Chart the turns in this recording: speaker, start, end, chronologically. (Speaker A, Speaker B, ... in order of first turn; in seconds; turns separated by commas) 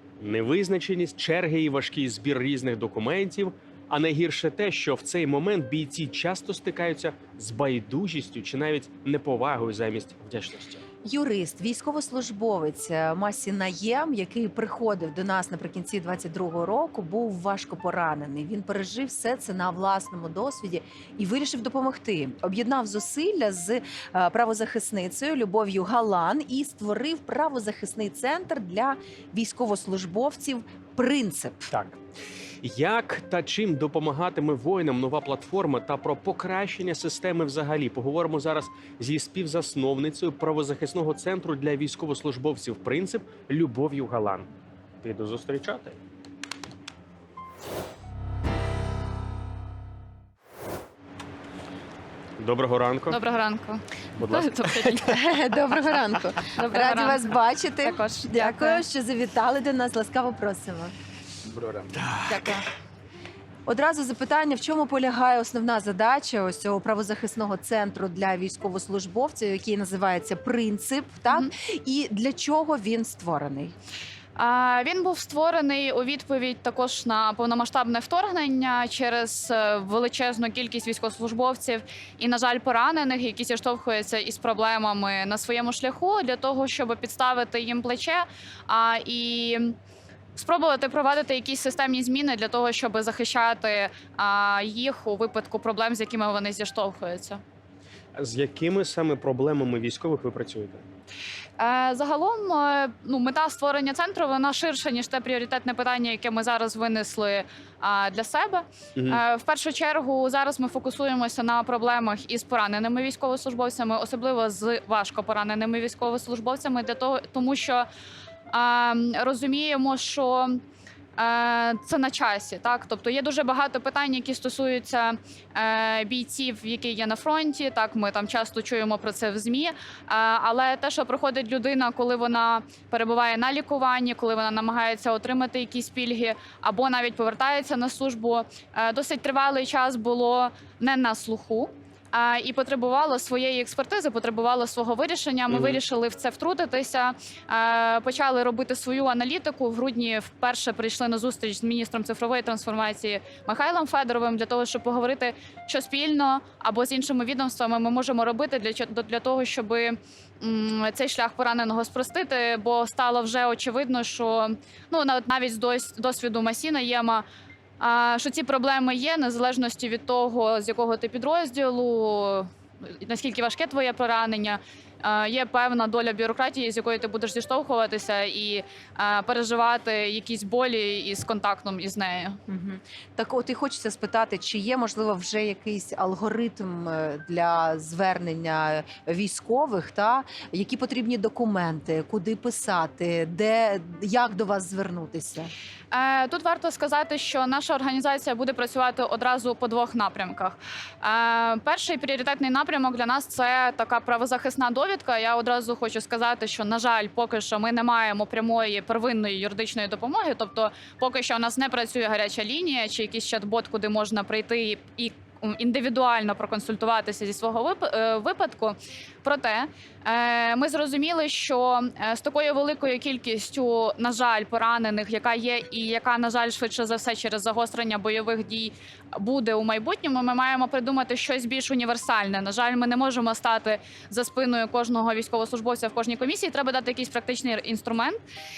Speaker A: 0.2-10.8, Speaker B: 11.0-31.7, Speaker A: 31.7-32.0, Speaker A: 32.6-44.5, Speaker A: 45.0-46.0, Speaker A: 52.4-53.2, Speaker C: 53.1-55.2, Speaker A: 54.2-55.0, Speaker B: 55.0-60.9, Speaker C: 56.5-57.3, Speaker C: 57.8-58.8, Speaker C: 62.2-62.6, Speaker B: 63.6-73.7, Speaker C: 74.3-89.7, Speaker C: 90.3-97.4, Speaker A: 98.2-100.8, Speaker C: 101.6-117.9, Speaker A: 109.0-109.2, Speaker C: 118.5-120.6, Speaker C: 121.2-167.2, Speaker A: 145.5-145.8, Speaker C: 167.8-182.4, Speaker B: 182.5-195.5, Speaker C: 195.9-238.2